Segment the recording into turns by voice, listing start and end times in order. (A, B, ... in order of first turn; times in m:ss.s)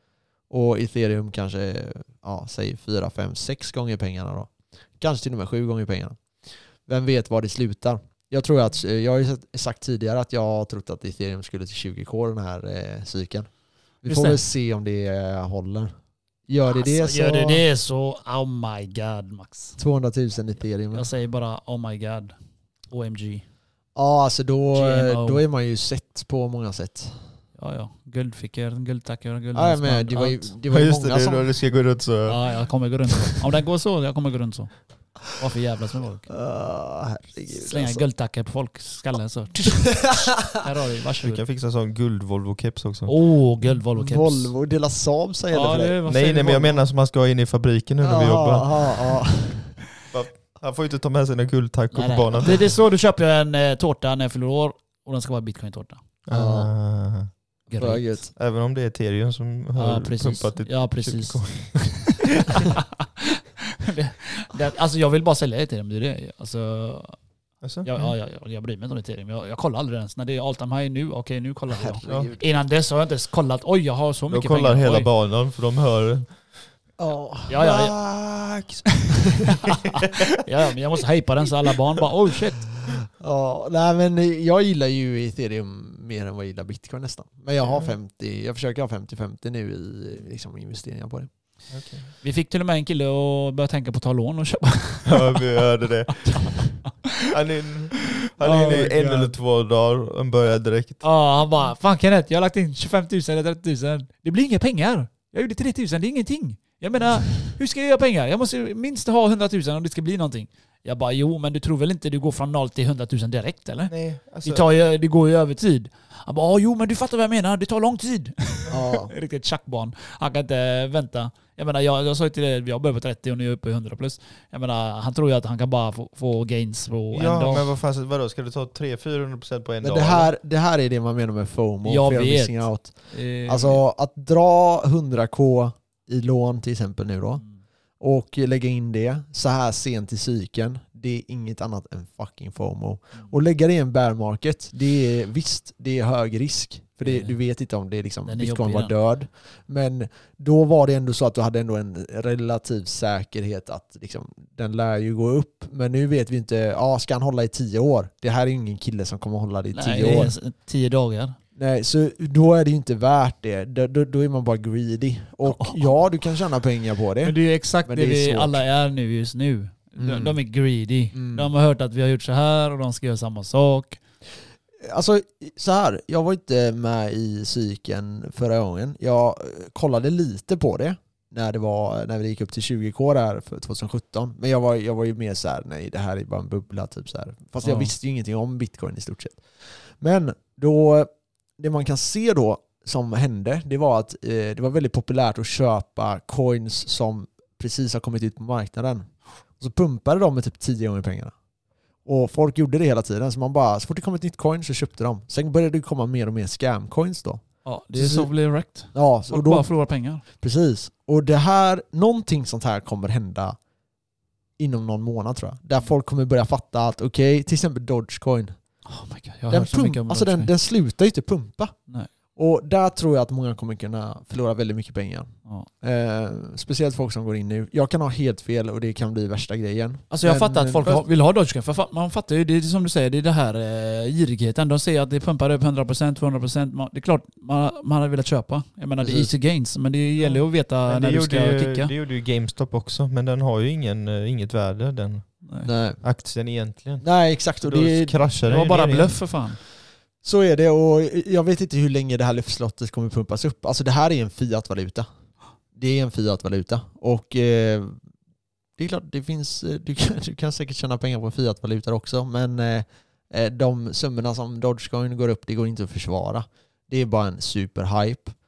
0:00.5-0:13.5 A
0:14.0-0:15.9 A
0:14.0-0:14.4 B
0:16.5-0:17.6 A
0:16.7-0:19.8 B
0:19.8-0:21.1 A
0:20.9-0:22.3 B
0:22.9-0:23.4 B
0:24.0-0:27.2 A
0:24.7-0:25.4 B
0:27.6-0:30.5 B
0:29.5-0:31.5 A
0:30.7-0:32.4 C
0:32.3-0:34.7 B
0:35.2-0:36.3 B
0:36.3-0:38.0 A
0:37.5-0:41.4 B
0:39.9-0:40.6 A
0:41.2-0:43.1 C
0:43.0-0:44.5 B
0:43.9-0:46.0 A
0:45.5-0:46.8 B
0:46.0-0:49.0 C
0:48.0-0:49.8 A
0:50.1-0:52.6 C
0:51.9-0:56.0 B
0:56.2-0:57.3 C
0:56.3-0:56.7 A
0:57.7-0:58.0 B
0:57.8-0:58.3 A
0:58.4-1:02.6 C
0:59.8-1:07.2 B
1:07.6-1:08.1 C
1:07.8-1:15.1 B
1:11.8-1:12.3 A
1:14.3-1:16.4 C
1:17.0-1:17.7 A
1:17.5-1:18.0 B
1:17.6-1:18.9 C
1:19.0-1:22.7 B
1:19.7-1:20.1 C
1:23.2-1:31.3 A
1:31.7-1:32.1 C
1:32.2-1:35.7 B
1:35.0-1:41.0 C
1:36.2-1:36.5 B
1:38.4-1:39.3 A
1:38.5-1:38.9 B
1:41.0-2:07.7 B
1:53.9-1:54.6 C
1:58.7-1:59.1 A
2:07.1-2:10.3 C
2:09.8-2:17.4 A
2:11.8-2:13.8 B
2:18.0-2:40.3 A
2:27.0-2:27.4 B
2:28.2-2:28.9 B
2:39.7-2:41.4 B
2:41.6-2:48.6 A
2:45.4-2:45.9 B
2:47.2-2:54.0 B
2:50.0-2:50.4 A
2:51.1-2:51.5 A
2:54.8-3:21.3 A
3:07.6-3:07.9 B
3:22.0-3:28.3 A
3:27.6-3:30.2 B
3:28.9-3:29.7 A
3:30.4-3:33.6 A
3:34.6-3:38.6 A
3:38.8-3:40.5 B
3:39.5-3:41.7 A
3:42.3-3:51.0 A
3:50.1-4:01.9 B
3:59.0-3:59.3 A
4:00.8-4:05.3 C
4:05.4-4:05.7 B
4:05.6-4:06.0 A
4:06.0-4:07.0 C
4:07.0-4:08.2 A
4:07.6-4:09.2 C
4:08.4-4:09.6 B
4:10.2-4:15.0 A
4:15.7-4:18.0 A
4:18.8-4:28.3 A